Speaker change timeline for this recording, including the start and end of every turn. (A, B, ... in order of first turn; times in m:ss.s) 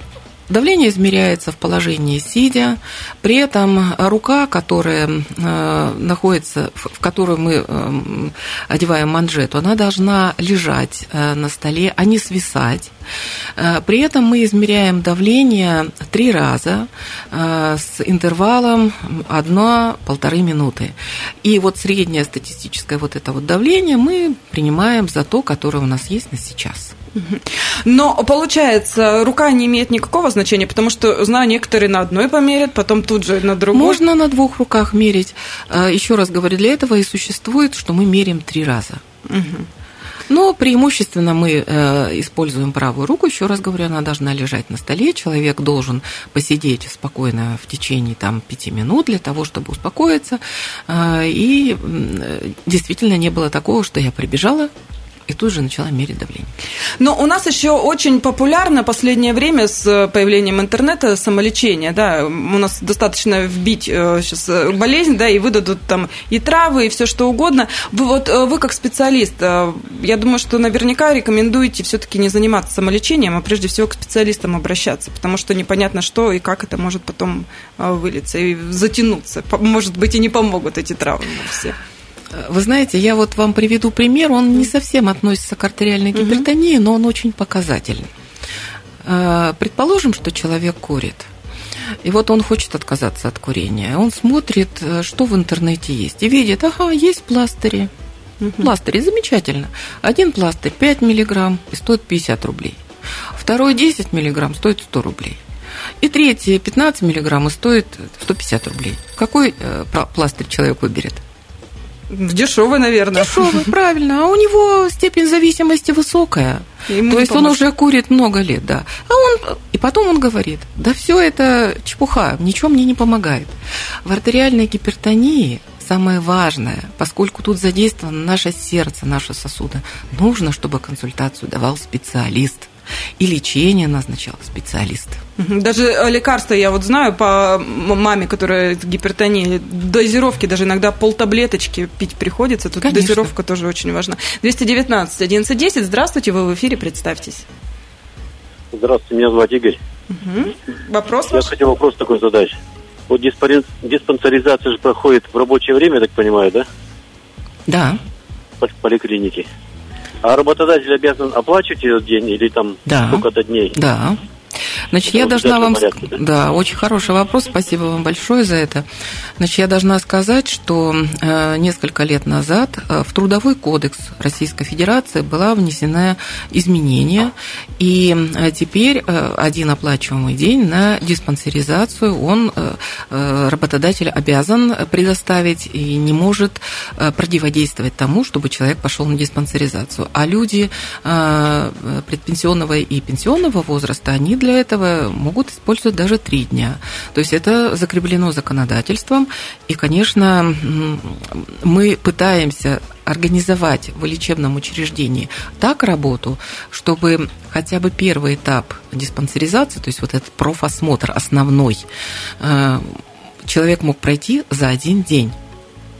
0:00.5-0:12.9 A
0:13.6-0:26.9 A
0:27.1-0:34.0 B
0:33.7-0:39.0 A
0:39.3-0:39.7 B
0:40.3-0:54.7 A
0:55.3-0:56.5 A
0:57.0-1:21.8 B
1:22.3-1:28.1 A
1:26.1-1:26.4 B
1:29.0-1:31.3 A
1:32.0-1:37.9 A
1:38.4-1:38.7 B
1:38.6-1:42.8 A
1:43.4-1:45.4 A
1:46.0-1:51.2 A
1:52.1-1:53.7 B
1:53.2-2:15.2 A
1:56.9-1:57.6 B
2:15.4-2:27.4 B
2:22.8-2:23.3 A
2:28.7-2:29.8 C
2:30.1-2:31.5 B
2:31.3-2:32.5 C
2:33.1-2:36.6 C
2:37.7-2:38.0 A
2:38.6-2:39.4 C
2:40.2-2:43.8 C
2:42.8-2:44.2 A
2:44.9-2:48.8 A
2:45.1-2:46.2 C
2:49.4-3:31.9 A
3:32.4-3:35.4 A